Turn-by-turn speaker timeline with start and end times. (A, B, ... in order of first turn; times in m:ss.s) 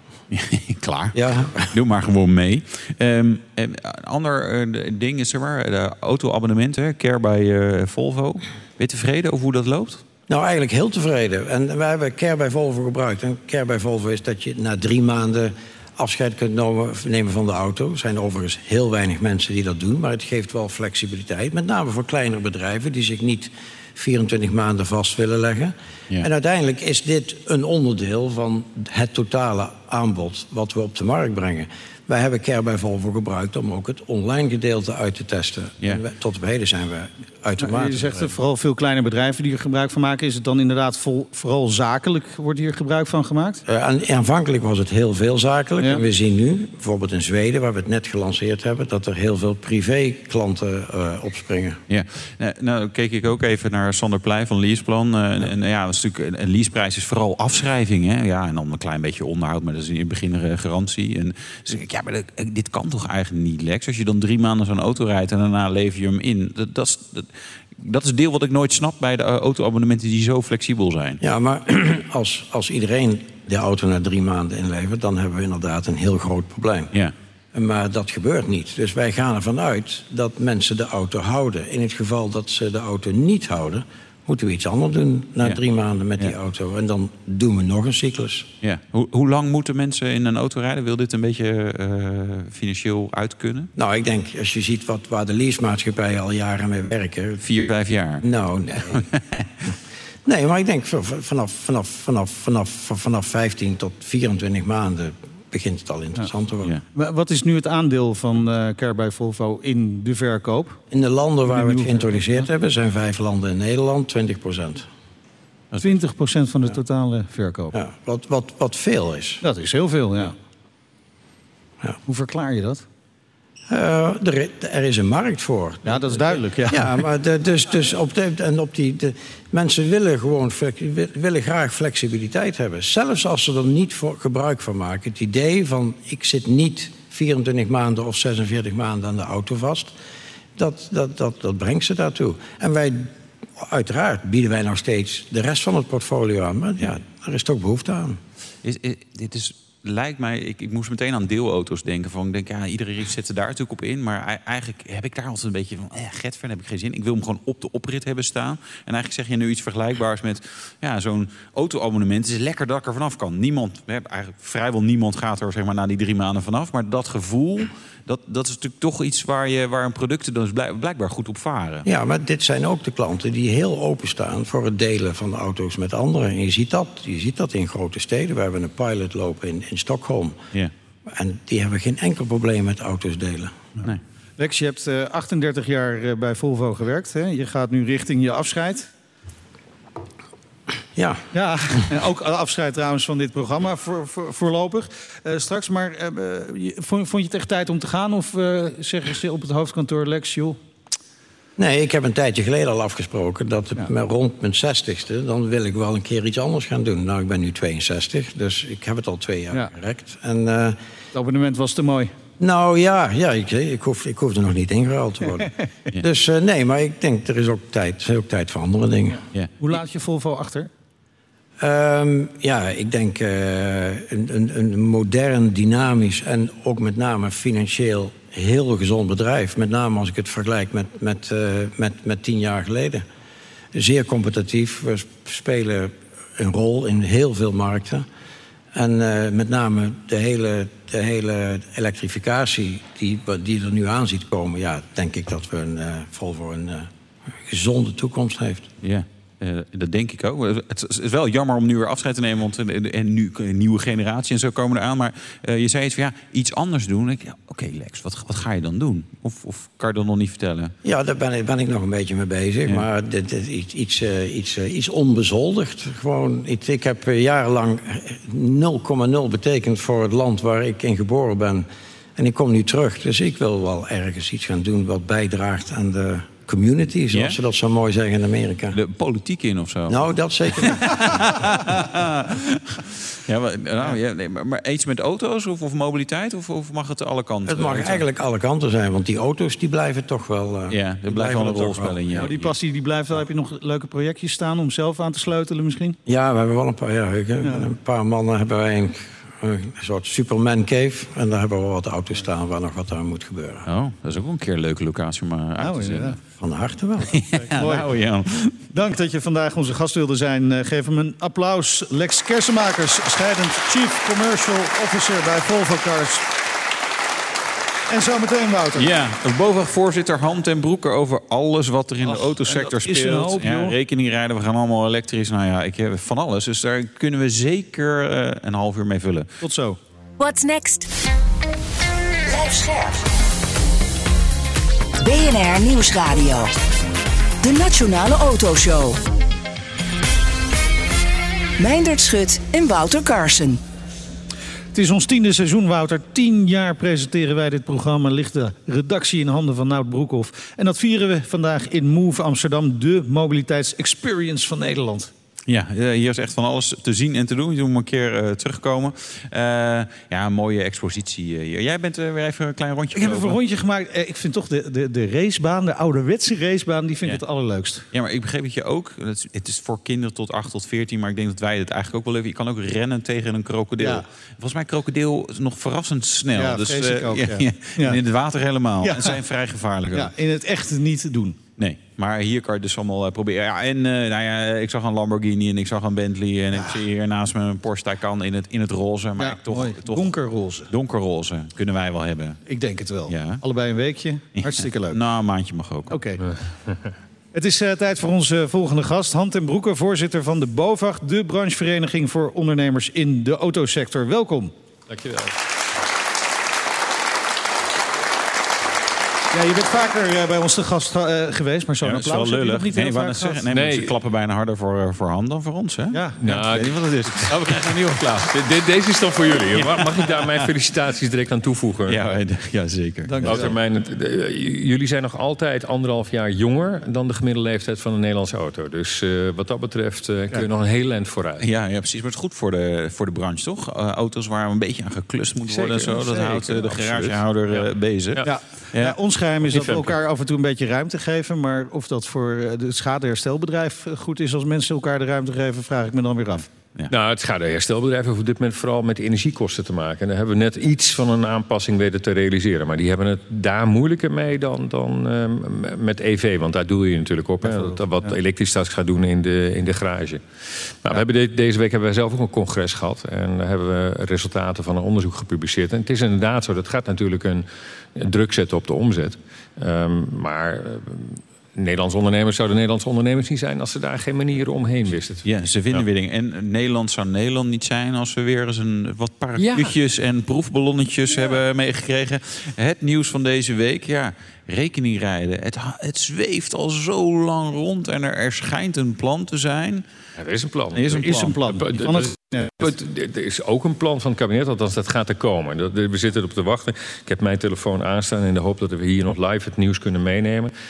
0:00.3-0:01.2 A
0:01.1-0:01.7 B
0:01.7-0:10.0 A
0:10.3-0:38.3 B
0:37.6-0:43.6 C
0:43.6-0:51.8 B
0:51.9-1:11.2 A
1:11.2-1:16.9 B
1:17.5-1:28.5 B
1:28.6-1:33.7 A
1:33.8-1:37.5 B
1:37.4-1:38.2 A
1:38.2-1:39.0 B
1:38.8-1:39.4 A
1:40.2-1:46.7 B
1:46.9-1:50.8 C
1:50.9-1:54.9 B
1:51.5-1:52.4 C
1:55.8-1:57.7 C
1:57.7-1:59.4 B
1:59.4-2:00.3 C
2:02.0-2:02.8 C
2:03.7-2:19.9 B
2:05.8-2:07.0 C
2:20.6-2:28.2 B
2:28.6-2:51.9 A
2:51.8-3:00.4 B
3:01.1-3:03.5 B
3:03.8-3:08.9 C
3:10.9-3:11.2 B
3:11.3-3:20.6 C
3:21.6-3:30.8 B
3:31.1-3:32.1 C
3:32.4-3:39.2 B
3:39.6-3:40.7 C
3:41.6-3:53.0 B
3:53.7-3:58.0 B
3:58.7-4:06.9 B
4:07.4-4:08.7 B
4:08.8-4:20.7 A
4:20.8-4:38.8 B
4:38.7-4:40.0 A
4:39.9-4:40.9 B
4:40.6-4:48.0 A
4:47.5-4:52.1 B
4:50.7-4:52.5 A
4:52.2-4:56.0 C
4:56.0-5:03.7 B
4:57.4-4:57.7 C
5:03.7-5:06.2 A
5:05.6-5:06.2 C
5:06.4-5:07.2 B
5:07.1-5:08.6 A
5:07.5-5:07.9 C
5:08.7-5:16.2 C
5:17.9-5:18.9 C
5:18.8-5:29.3 A
5:22.0-5:23.8 C
5:29.4-5:29.8 C
5:30.2-5:30.9 D
5:32.3-5:33.0 D
5:35.0-5:36.5 D
5:37.4-5:39.0 D
5:41.6-5:43.6 D
5:44.7-5:55.1 C
5:55.5-6:03.4 A
6:02.9-6:07.8 C
6:07.9-6:20.1 A
6:16.4-6:18.0 C
6:18.8-6:19.2 C
6:19.9-6:21.4 C
6:21.6-6:30.1 A
6:29.2-6:30.7 C
6:30.7-6:32.4 A
6:32.5-6:35.0 C
6:33.1-6:33.4 A
6:34.4-6:36.0 A
6:35.9-6:36.2 C
6:37.3-6:44.5 C
6:44.9-6:45.3 E
6:49.3-6:53.4 C
6:51.8-6:58.3 A
6:53.5-6:53.9 E
6:55.9-6:57.2 C
6:56.2-7:02.0 E
6:59.4-7:00.5 A
7:01.9-7:03.5 A
7:03.0-7:03.5 C
7:03.2-7:11.4 E
7:11.4-7:19.0 A
7:15.4-7:18.4 E
7:18.2-7:26.4 C
7:19.4-7:19.9 E
7:26.9-7:55.8 E
7:37.4-7:38.1 C
7:55.2-8:09.8 A
7:59.4-7:59.7 E
8:10.2-8:20.5 E
8:10.7-8:11.5 A
8:10.9-8:12.7 C